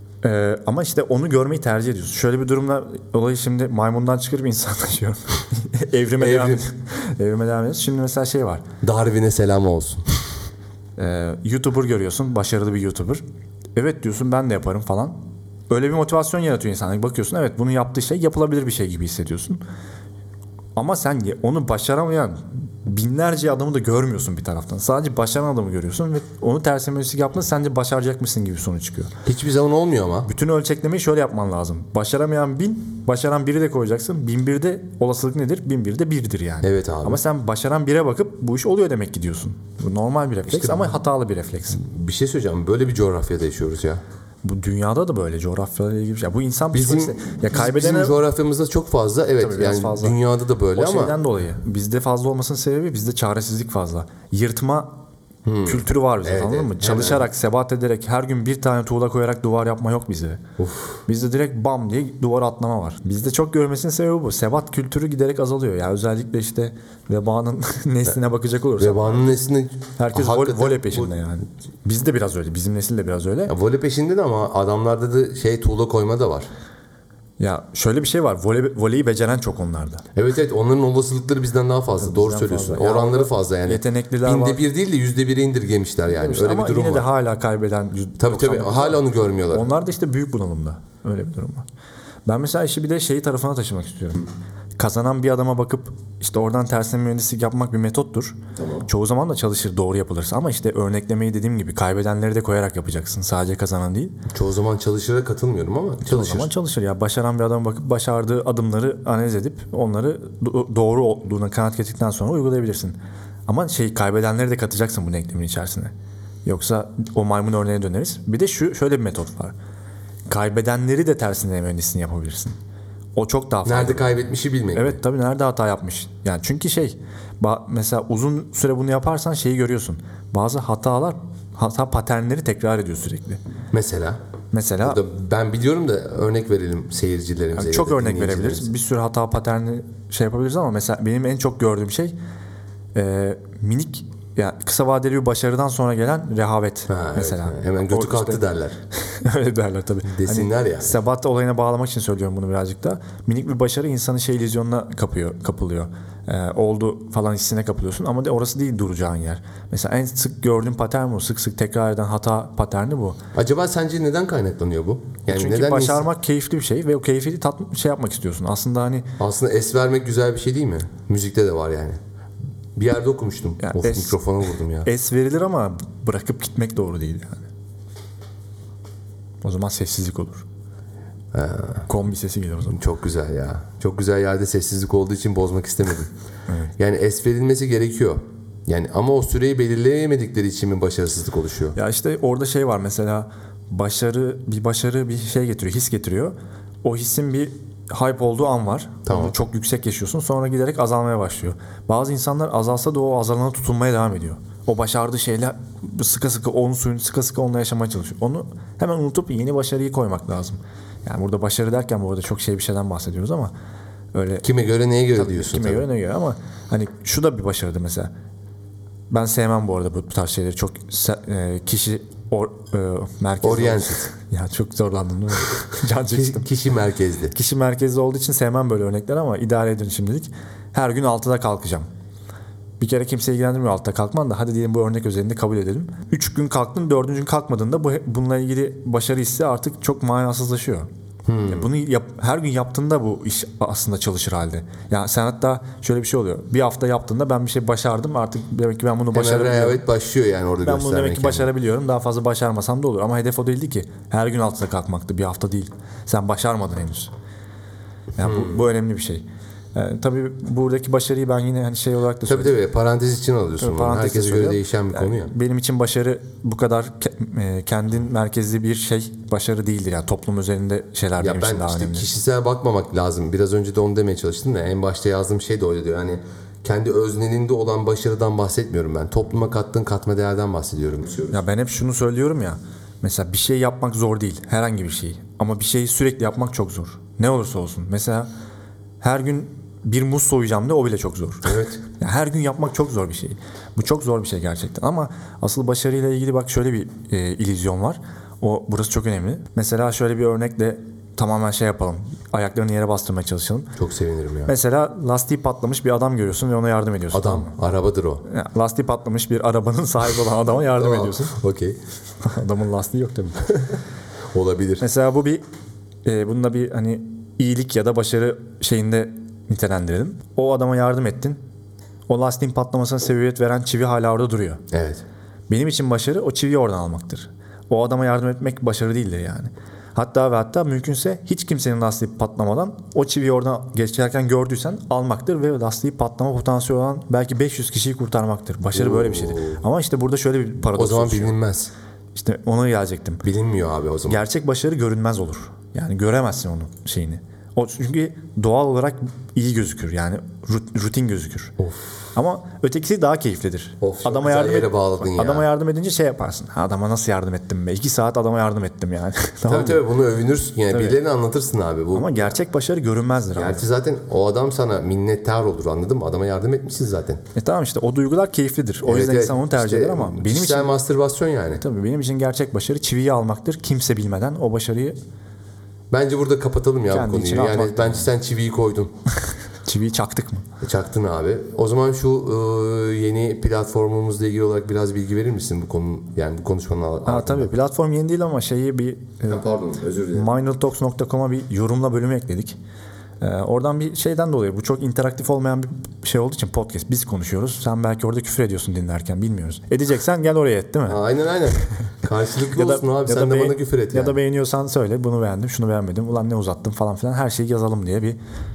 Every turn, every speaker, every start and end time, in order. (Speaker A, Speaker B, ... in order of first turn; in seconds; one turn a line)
Speaker A: 0.2-8.6
Speaker B: 6.2-6.6
Speaker B: 8.8-10.1
Speaker A: 11.0-13.2
Speaker A: 13.7-15.2
Speaker A: 15.7-19.6
Speaker A: 20.8-29.1
Speaker B: 29.2-30.3
Speaker A: 30.2-41.8
Speaker B: 36.6-37.2
Speaker B: 40.5-41.0
Speaker B: 41.7-44.0
Speaker A: 44.4-48.2
Speaker B: 46.7-51.2
Speaker A: 49.4-50.2
Speaker A: 50.7-54.9
Speaker B: 55.4-57.3
Speaker A: 55.6-60.4
Speaker B: 60.6-61.0
Speaker A: 61.1-69.1
Speaker B: 68.8-71.1
Speaker A: 70.0-73.5
Speaker B: 73.5-76.5
Speaker A: 77.4-80.0
Speaker B: 80.1-87.1
Speaker A: 82.0-84.6
Speaker A: 86.1-89.0
Speaker B: 88.2-89.7
Speaker A: 89.5-91.6
Speaker A: 92.3-104.1
Speaker B: 98.5-98.8
Speaker B: 104.3-106.5
Speaker A: 106.0-113.0
Speaker A: 113.5-115.9
Speaker A: 116.4-119.5
Speaker A: 120.3-122.5
Speaker A: 123.2-124.2
Speaker B: 123.6-125.0
Speaker A: 124.7-133.4
Speaker B: 133.7-134.2
Speaker A: 134.5-135.0
Speaker B: 134.8-138.7
Speaker A: 137.5-142.1
Speaker A: 142.9-148.4
Speaker B: 146.9-148.8
Speaker A: 149.0-163.2
Speaker B: 150.1-150.9
Speaker B: 163.3-166.1
Speaker A: 165.3-169.1
Speaker B: 169.2-172.0
Speaker B: 172.8-174.9
Speaker A: 173.6-174.2
Speaker A: 174.8-177.5
Speaker A: 179.4-180.4
Speaker B: 181.3-181.8
Speaker A: 181.9-182.8
Speaker B: 182.7-186.1
Speaker B: 186.8-191.8
Speaker A: 191.7-213.5
Speaker B: 199.1-199.3
Speaker A: 214.1-214.4
Speaker B: 214.4-215.8
Speaker A: 215.1-218.1
Speaker A: 219.1-226.4
Speaker B: 223.4-224.1
Speaker B: 226.1-227.3
Speaker A: 227.3-231.9
Speaker A: 232.8-240.9
Speaker B: 241.2-241.7
Speaker A: 241.5-249.8
Speaker B: 249.1-251.5
Speaker A: 250.6-257.1
Speaker A: 258.1-259.2
Speaker B: 258.2-258.6
Speaker A: 259.7-262.5
Speaker B: 262.3-265.3
Speaker A: 263.6-272.1
Speaker B: 271.2-281.4
Speaker A: 281.3-288.3
Speaker A: 289.0-303.7
Speaker B: 291.4-291.8
Speaker B: 303.8-304.5
Speaker A: 304.5-307.5
Speaker B: 307.1-308.2
Speaker A: 308.2-311.3
Speaker B: 310.7-311.8
Speaker A: 312.2-313.5
Speaker B: 314.3-314.8
Speaker A: 314.8-315.4
Speaker A: 316.0-321.4
Speaker A: 322.1-324.6
Speaker B: 324.7-325.0
Speaker A: 325.5-341.3
Speaker B: 338.7-339.6
Speaker B: 340.7-341.7
Speaker A: 342.1-343.2
Speaker B: 343.2-344.2
Speaker A: 344.1-351.5
Speaker B: 351.6-352.1
Speaker A: 352.1-359.8
Speaker B: 353.8-355.4
Speaker B: 359.5-362.4
Speaker A: 360.7-361.0
Speaker A: 361.9-363.6
Speaker B: 363.3-367.2
Speaker A: 367.4-370.8
Speaker B: 368.8-371.6
Speaker A: 371.5-375.0
Speaker B: 375.9-378.9
Speaker A: 376.9-378.1
Speaker A: 379.6-380.4
Speaker B: 380.6-387.6
Speaker A: 387.1-389.4
Speaker B: 389.3-390.3
Speaker A: 390.1-392.6
Speaker A: 393.2-401.0
Speaker B: 400.9-404.2
Speaker A: 402.5-408.2